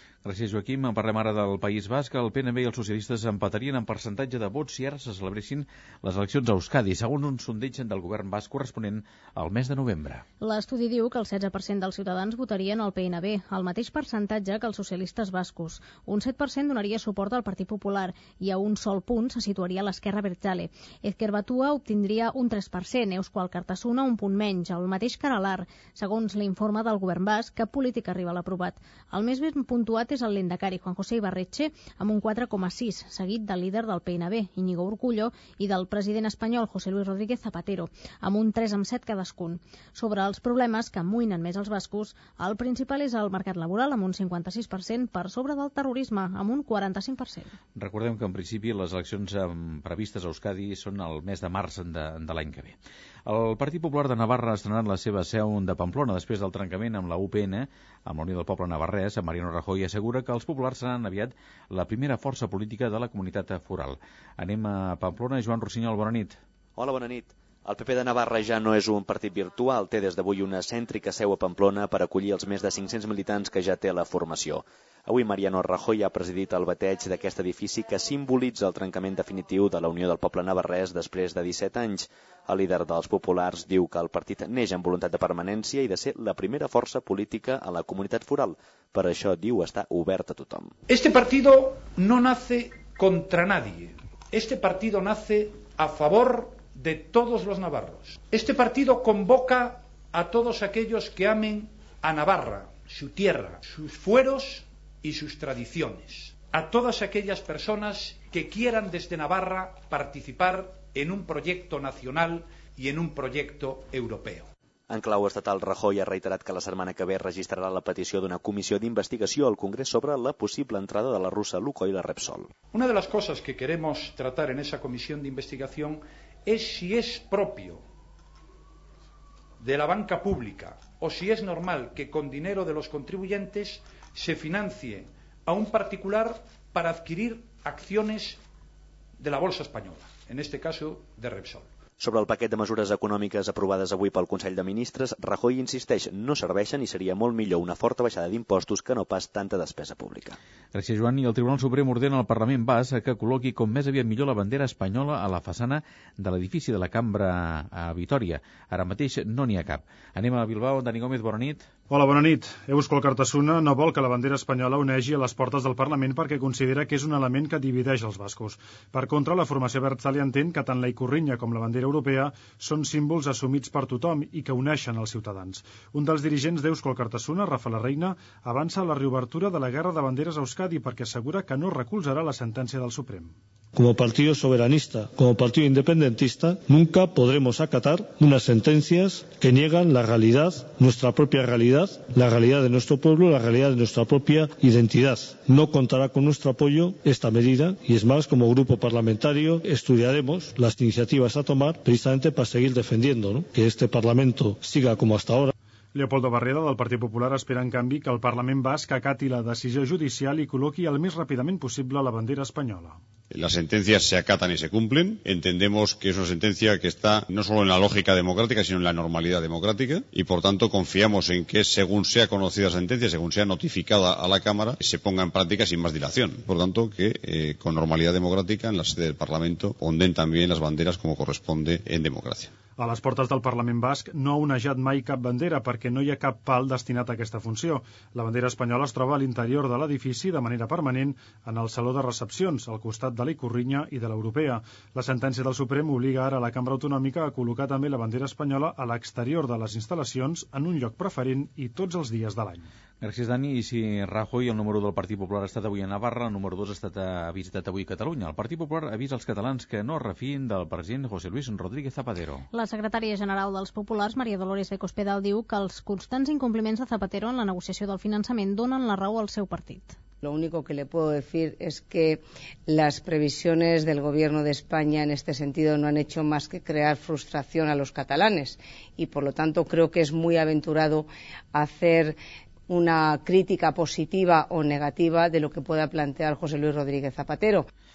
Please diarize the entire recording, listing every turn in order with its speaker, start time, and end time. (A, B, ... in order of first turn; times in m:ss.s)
0:00.2-0:10.2 A
0:10.4-0:47.5 B
0:47.8-1:06.4 A
1:06.8-1:30.7 C
1:30.9-1:54.5 D
1:54.9-2:02.5 C
2:02.7-2:07.8 D
2:09.6-2:18.4 D
2:19.2-2:21.7 D
2:22.0-2:30.4 C
2:30.7-2:41.7 A
2:41.9-3:03.4 E
3:03.8-3:25.5 F
3:25.9-3:33.0 E
3:33.3-3:52.5 G
3:52.8-4:12.7 E
4:13.0-4:22.5 A
4:22.5-4:30.0 B
4:30.2-4:42.2 H
4:42.7-4:47.7 H